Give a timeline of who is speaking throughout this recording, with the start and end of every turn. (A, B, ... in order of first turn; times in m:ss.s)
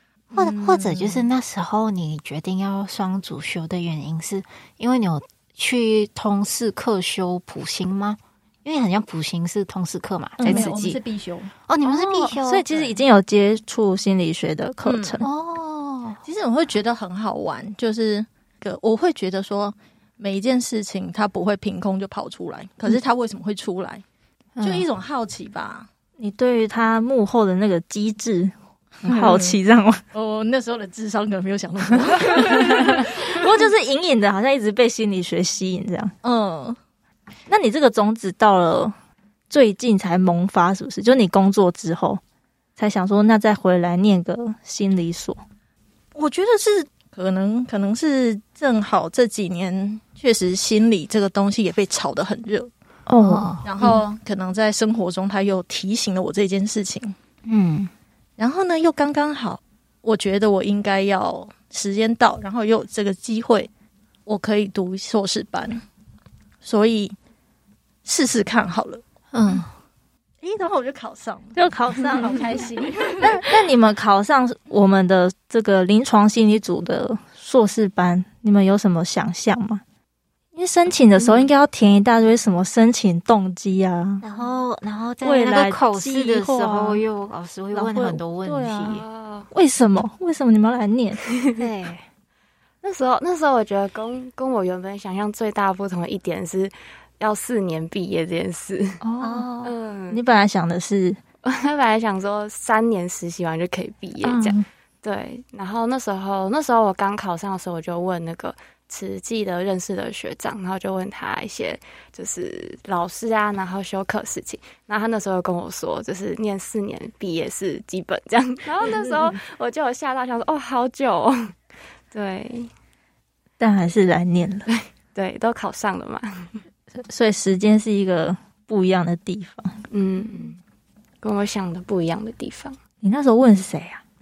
0:00.3-0:01.3 A
0:00.3-0:11.0 B
0:10.4-0:10.8 C
0:10.4-0:11.5 A
0:11.7-0:13.0 B
0:11.8-0:15.3 C
0:14.8-0:15.2 A
0:15.2-0:16.2 B
0:16.2-0:24.0 A
0:24.6-0:24.9 B
0:24.6-0:25.9 A
0:26.2-0:28.5 C
0:29.0-0:29.6 A
0:29.0-0:30.0 C
0:30.1-0:33.6 A
0:32.3-0:36.1 C
0:36.2-0:36.8 A
0:37.5-0:39.0 C
0:39.5-0:42.2 C
0:42.8-0:45.4 C
0:46.2-0:52.7 A
0:53.1-0:53.5 C
0:53.2-0:54.0 B
0:53.6-0:57.2 A
0:57.5-0:57.9 B
0:58.4-1:03.7 A
1:04.3-1:05.8 A
1:06.6-1:07.2 A
1:08.0-1:09.0 A
1:09.3-1:09.7 B
1:10.4-1:13.6 A
1:11.6-1:12.7 C
1:13.2-1:19.8 C
1:20.6-1:24.2 C
1:24.2-1:29.0 B
1:25.2-1:27.0 C
1:27.7-1:31.2 C
1:28.9-1:29.5 D
1:31.6-1:32.1 B
1:32.8-1:39.0 D
1:39.0-1:39.5 C
1:39.2-1:39.7 B
1:39.6-1:40.2 D
1:40.1-1:41.2 C
1:41.4-2:01.6 D
1:44.2-1:44.6 C
1:58.8-1:59.4 C
2:02.1-2:02.7 D
2:03.6-2:04.7 C
2:04.7-2:06.6 D
2:07.0-2:09.8 C
2:09.9-2:10.6 D
2:11.2-2:12.8 D
2:13.0-2:14.0 C